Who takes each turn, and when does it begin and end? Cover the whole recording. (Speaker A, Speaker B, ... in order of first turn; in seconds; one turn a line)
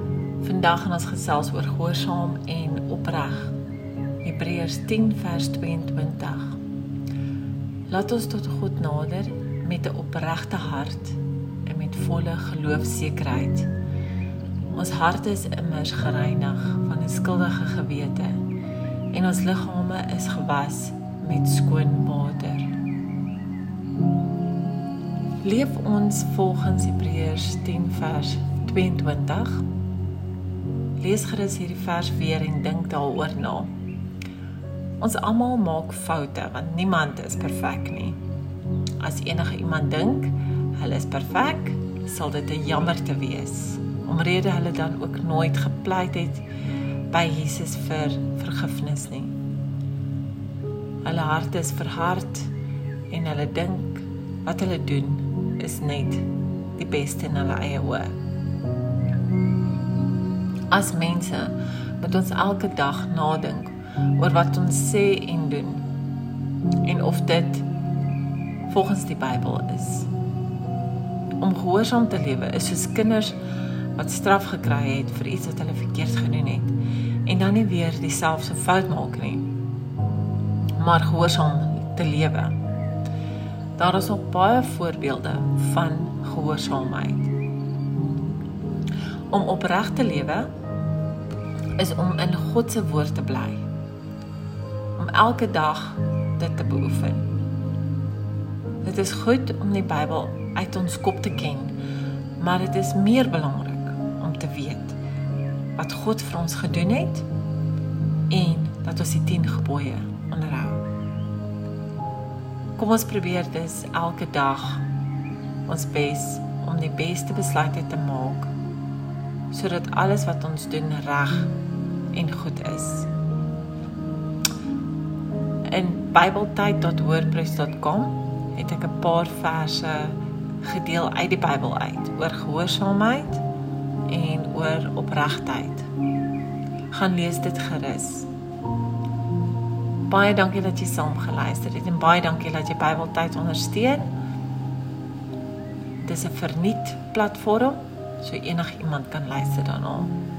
Speaker A: 0.4-3.5
Speaker A: 4.2-6.5
Speaker A: 7.9-13.7
Speaker A: 14.7-18.4
Speaker A: 19.1-22.7
Speaker A: 25.4-29.6
Speaker A: 31.0-33.7
Speaker A: 35.0-38.2
Speaker A: 39.0-46.4
Speaker A: 47.1-49.3
Speaker A: 51.0-52.5
Speaker A: 53.1-58.2
Speaker A: 60.7-65.8
Speaker A: 66.8-67.7
Speaker A: 68.7-70.1
Speaker A: 71.4-73.4
Speaker A: 74.0-79.5
Speaker A: 80.8-82.5
Speaker A: 83.8-87.3
Speaker A: 89.3-90.5
Speaker A: 91.8-93.7
Speaker A: 95.0-97.3
Speaker A: 98.8-101.8
Speaker A: 102.4-105.0
Speaker A: 105.8-107.3
Speaker A: 108.3-110.8
Speaker A: 112.8-114.8
Speaker A: 115.7-118.5
Speaker A: 119.5-121.5
Speaker A: 122.1-123.1
Speaker A: 125.7-133.4
Speaker A: 134.1-135.9
Speaker A: 136.9-138.3
Speaker A: 140.1-144.1
Speaker A: 146.0-150.2